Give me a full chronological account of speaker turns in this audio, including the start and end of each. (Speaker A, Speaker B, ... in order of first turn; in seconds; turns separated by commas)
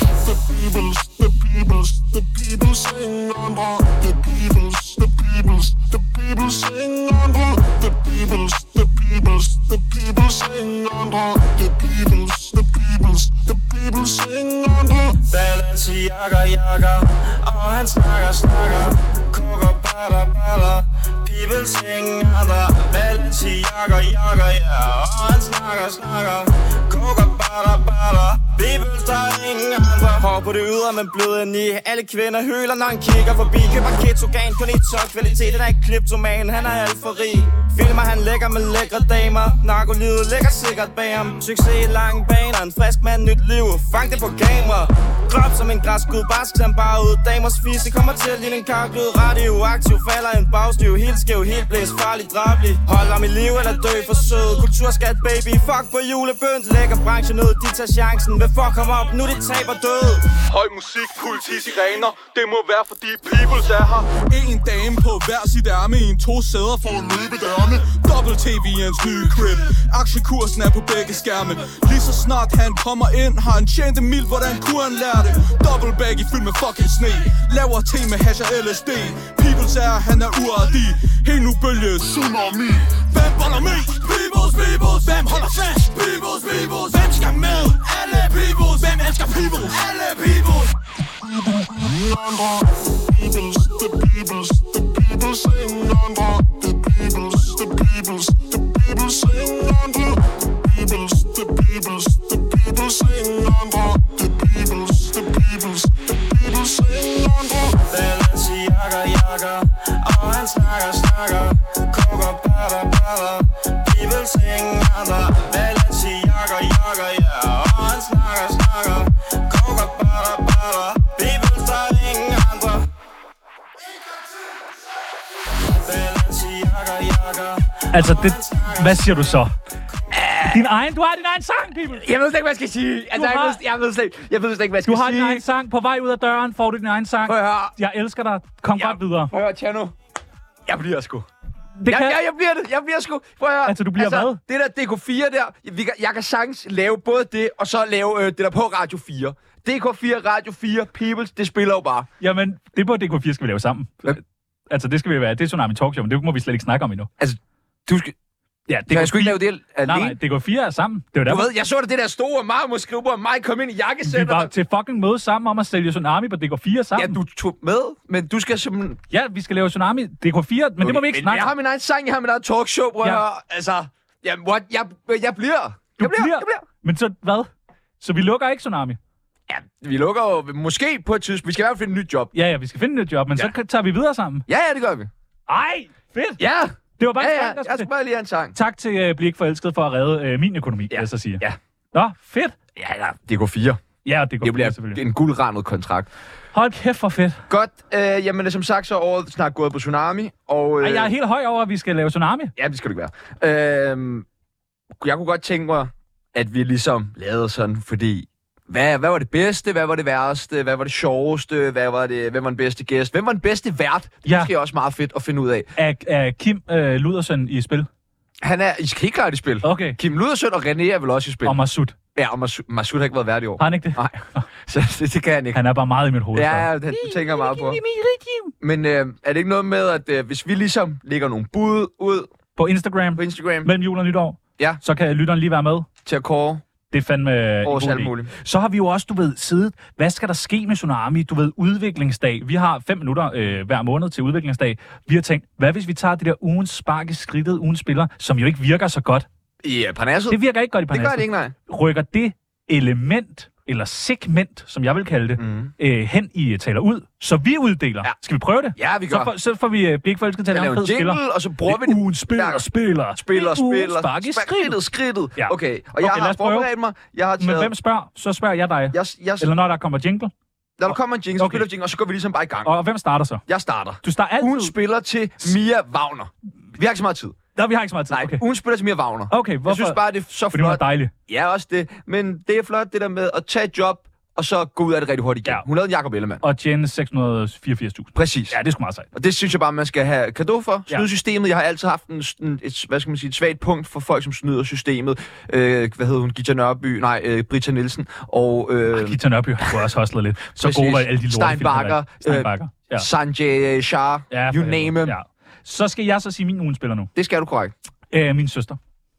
Speaker A: 0.2-15.2, Speaker B: 15.3-60.3, Speaker C: 60.5-66.9, Speaker A: 66.9-67.9, Speaker C: 67.8-82.1, Speaker A: 82.1-82.9, Speaker C: 82.9-90.7, Speaker A: 91.3-107.8, Speaker B: 107.9-122.9, Speaker B: 125.8-129.3, Speaker D: 127.9-129.5, Speaker E: 130.1-130.7, Speaker D: 130.5-132.1, Speaker E: 131.9-135.4, Speaker D: 133.1-133.6, Speaker D: 134.8-139.3, Speaker E: 137.2-137.8, Speaker E: 138.8-139.9, Speaker E: 140.7-141.3, Speaker D: 141.8-142.2, Speaker E: 141.9-152.1, Speaker D: 143.7-144.4, Speaker D: 152.2-157.1, Speaker E: 157.2-158.2, Speaker D: 158.7-161.5, Speaker E: 158.9-160.2, Speaker E: 161.3-164.5, Speaker D: 164.1-167.2, Speaker E: 166.9-169.0, Speaker D: 169.1-171.5, Speaker E: 170.8-176.7, Speaker D: 176.0-177.5, Speaker D: 178.0-179.0, Speaker E: 179.5-182.3, Speaker D: 182.3-184.5, Speaker E: 184.5-185.1, Speaker D: 185.5-186.4, Speaker E: 186.4-188.6, Speaker D: 187.0-187.9, Speaker D: 188.5-192.6, Speaker E: 190.9-191.6, Speaker E: 192.8-193.8, Speaker D: 194.1-195.0, Speaker E: 194.4-196.1, Speaker D: 196.5-197.4, Speaker E: 197.5-201.1, Speaker D: 200.8-202.5, Speaker E: 202.6-204.3, Speaker E: 205.0-215.7, Speaker D: 214.2-214.5, Speaker D: 215.8-217.9, Speaker E: 218.4-221.6, Speaker D: 219.6-220.0, Speaker D: 221.4-222.0, Speaker E: 222.2-225.6, Speaker D: 223.6-224.5, Speaker D: 225.5-228.5, Speaker E: 226.3-227.8, Speaker E: 228.6-232.3, Speaker D: 232.6-235.9, Speaker E: 233.2-233.7, Speaker E: 236.1-236.6, Speaker D: 236.9-249.3, Speaker E: 237.6-238.3, Speaker E: 249.6-251.5, Speaker D: 250.3-264.8, Speaker E: 255.4-255.7, Speaker E: 258.8-259.3, Speaker E: 260.5-267.7, Speaker D: 265.4-266.7, Speaker D: 267.4-270.3, Speaker E: 268.9-269.5, Speaker E: 270.8-272.7, Speaker D: 270.9-271.7, Speaker D: 272.6-273.4, Speaker E: 273.5-277.4, Speaker D: 274.0-274.7, Speaker D: 277.6-278.4, Speaker E: 278.1-286.4, Speaker D: 279.3-281.1, Speaker D: 286.4-289.1, Speaker E: 288.1-288.6, Speaker E: 289.1-299.8, Speaker D: 298.9-303.1, Speaker E: 300.6-305.2, Speaker D: 304.3-307.1, Speaker E: 307.1-307.7, Speaker D: 308.1-308.8